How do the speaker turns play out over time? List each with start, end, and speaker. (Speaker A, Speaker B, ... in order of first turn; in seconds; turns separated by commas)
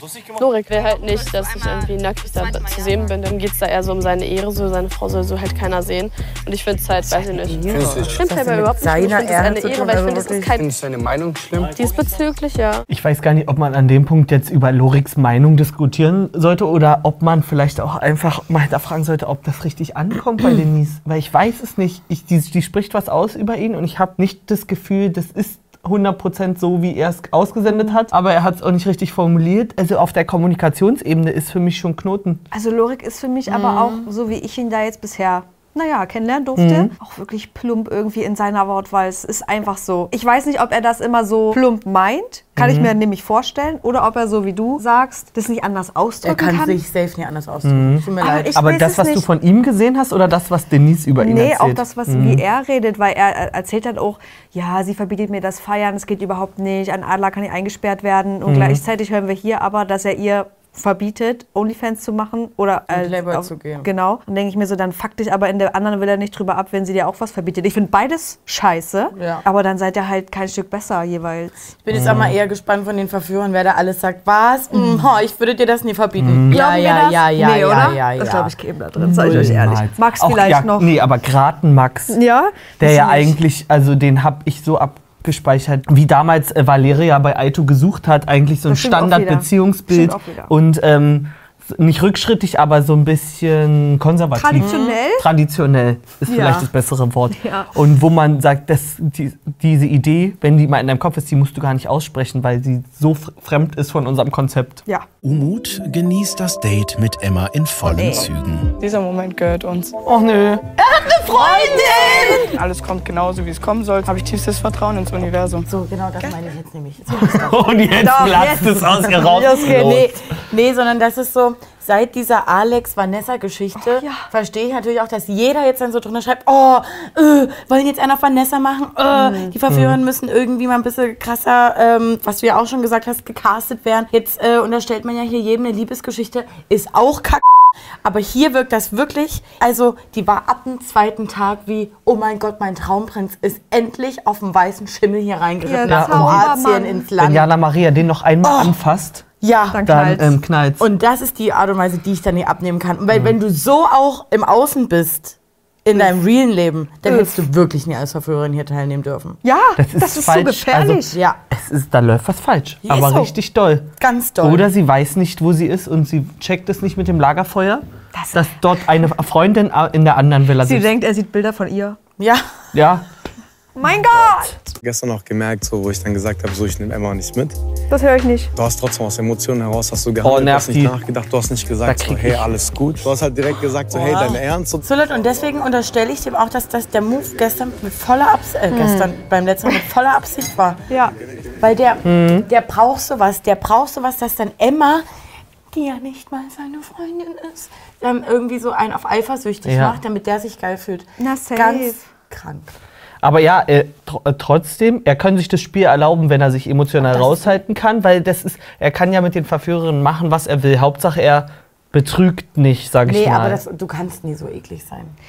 Speaker A: 0.3-10.8, Speaker B: 7.5-10.6, Speaker C: 7.8-8.1, Speaker C: 10.6-11.8, Speaker A: 11.7-12.8, Speaker D: 12.9-32.4, Speaker E: 32.5-46.8, Speaker B: 33.5-34.1, Speaker D: 36.6-36.9, Speaker D: 42.6-42.9, Speaker B: 46.2-48.6, Speaker D: 47.6-52.4, Speaker E: 48.2-49.3, Speaker E: 51.2-72.2, Speaker D: 58.5-58.8, Speaker B: 62.9-63.9, Speaker B: 69.1-69.4, Speaker B: 71.8-78.5, Speaker D: 71.9-72.3, Speaker D: 76.2-76.6, Speaker E: 76.5-80.9, Speaker D: 79.0-82.2, Speaker E: 82.1-83.4, Speaker D: 82.8-104.8, Speaker E: 88.7-90.5, Speaker E: 94.4-95.3, Speaker B: 94.6-95.0, Speaker E: 96.3-96.7, Speaker E: 97.4-97.7, Speaker F: 105.2-108.7, Speaker E: 107.8-108.3, Speaker G: 108.8-109.9, Speaker D: 110.0-112.5, Speaker E: 111.7-112.1, Speaker G: 112.5-115.7, Speaker B: 115.7-118.3, Speaker D: 117.1-120.1, Speaker E: 118.0-119.9, Speaker B: 119.2-137.4, Speaker E: 123.8-124.3, Speaker E: 129.1-129.6, Speaker D: 129.7-130.0, Speaker B: 138.0-147.5, Speaker E: 145.6-147.1, Speaker D: 145.9-146.5, Speaker D: 147.2-149.2, Speaker B: 148.4-148.8, Speaker B: 149.4-149.8, Speaker E: 149.7-150.3, Speaker D: 149.8-150.8, Speaker B: 150.8-159.4, Speaker E: 157.1-157.4, Speaker E: 159.4-161.2, Speaker D: 159.8-163.9, Speaker B: 161.1-161.4, Speaker B: 162.8-163.3, Speaker B: 164.0-164.7, Speaker D: 164.4-170.9, Speaker E: 168.2-168.6, Speaker E: 170.6-172.0, Speaker B: 172.2-172.4, Speaker D: 172.7-173.1, Speaker E: 173.8-174.6, Speaker D: 173.9-174.4, Speaker C: 174.8-177.6, Speaker E: 177.9-178.5, Speaker C: 178.6-184.9, Speaker D: 180.2-181.0, Speaker D: 181.8-182.6, Speaker B: 183.9-190.8, Speaker E: 188.7-189.1, Speaker E: 190.9-191.2, Speaker B: 191.6-195.1, Speaker D: 192.0-192.5, Speaker B: 195.7-202.7, Speaker D: 199.7-200.0, Speaker E: 201.2-202.0, Speaker D: 203.2-213.6, Speaker E: 207.1-207.5, Speaker B: 213.1-215.2